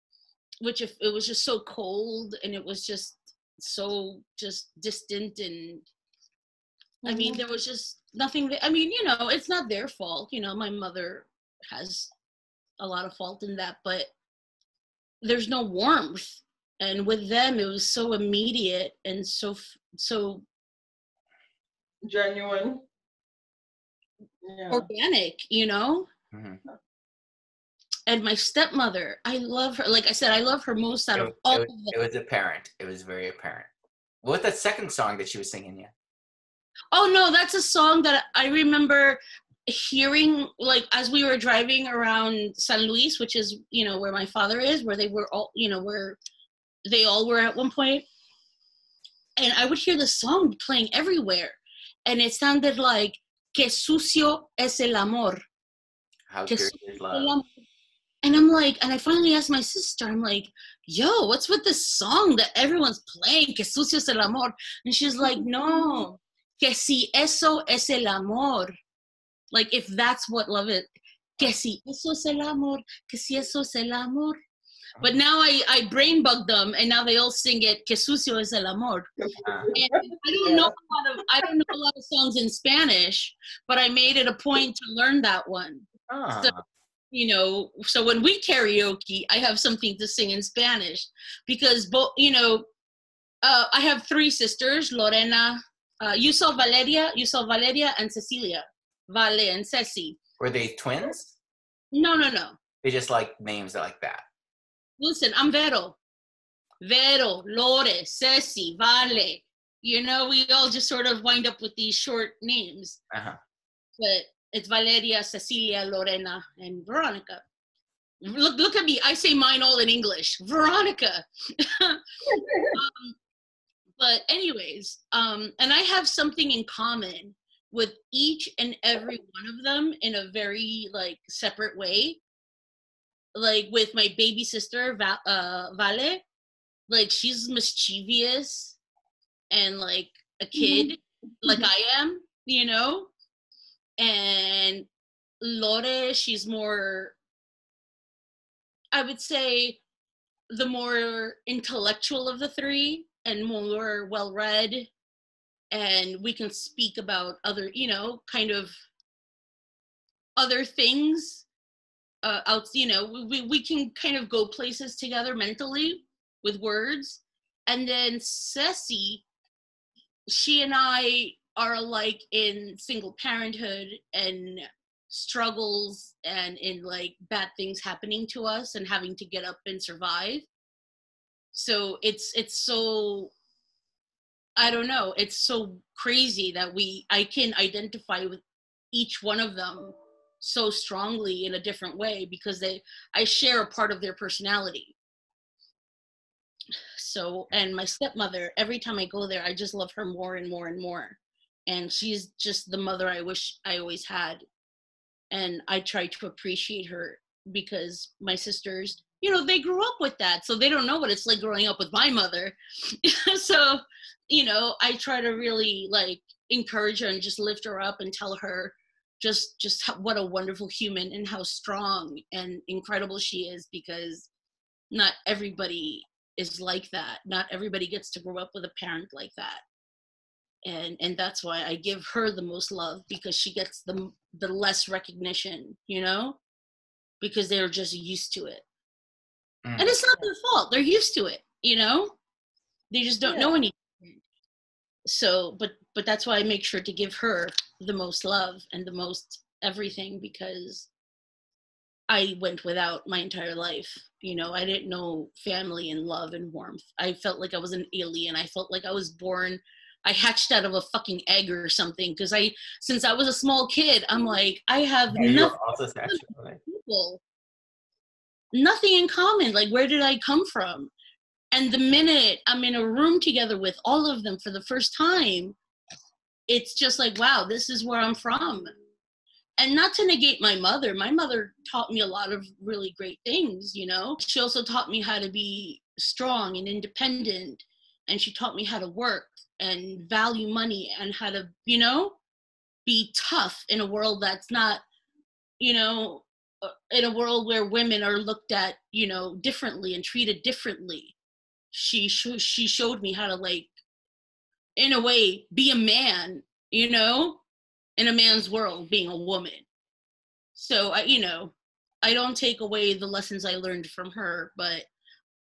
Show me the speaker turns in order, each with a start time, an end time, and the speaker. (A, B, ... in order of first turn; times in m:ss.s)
0:00.6-0:05.8 A
0:07.0-0:07.4 B
0:07.0-0:12.1 A
0:12.8-0:14.1 A
0:15.2-0:20.4 A
0:22.0-0:22.8 B
0:24.4-0:24.9 B
0:24.7-0:26.0 A
0:26.3-0:26.6 C
0:28.1-0:31.9 A
0:31.1-0:33.7 C
0:34.2-0:35.9 C
0:36.9-0:46.2 A
0:46.8-0:48.0 A
0:49.4-0:55.4 A
0:56.3-0:57.3 C
0:56.5-0:57.6 A
0:58.2-1:08.7 A
1:09.5-1:14.4 A
1:15.0-1:19.1 A
1:19.4-1:19.7 C
1:19.7-1:20.7 B
1:19.7-1:26.5 A
1:26.1-1:26.6 C
1:27.1-1:32.6 A
1:33.4-1:40.2 A
1:40.4-1:41.4 C
1:41.9-1:42.6 A
1:42.8-1:44.2 C
1:45.0-1:46.0 A
1:46.8-1:53.0 A
1:53.1-1:53.4 C
1:54.0-1:57.4 A
1:58.2-2:02.0 A
2:02.4-2:02.6 B
2:02.7-2:03.2 A
2:04.0-2:12.2 A
2:13.3-2:16.2 A
2:16.9-2:18.8 A
2:19.5-2:23.1 A
2:24.0-2:24.9 A
2:25.4-2:27.2 A
2:28.9-2:29.8 A
2:30.5-2:34.9 A
2:35.7-2:38.7 A
2:40.4-2:41.4 A
2:42.2-2:49.2 A
2:50.3-3:00.5 A
3:01.5-3:03.3 A
3:04.6-3:08.4 A
3:08.9-3:15.0 A
3:17.0-3:24.4 A
3:25.3-3:44.3 A
3:44.9-3:49.6 A
3:50.6-3:56.4 A
3:57.2-3:58.6 A
3:59.6-4:00.0 C
3:59.8-4:02.2 A
4:02.9-4:04.2 A
4:03.2-4:03.6 B
4:05.0-4:10.9 A
4:12.1-4:27.2 A
4:25.1-4:26.6 C
4:28.5-4:30.9 A
4:31.5-4:35.6 A
4:36.5-4:38.7 A
4:39.6-4:52.2 A
4:52.8-4:54.8 A
4:55.6-5:01.2 A
5:01.7-5:03.7 A
5:04.8-5:07.4 A
5:08.0-5:09.6 A
5:10.5-5:14.9 A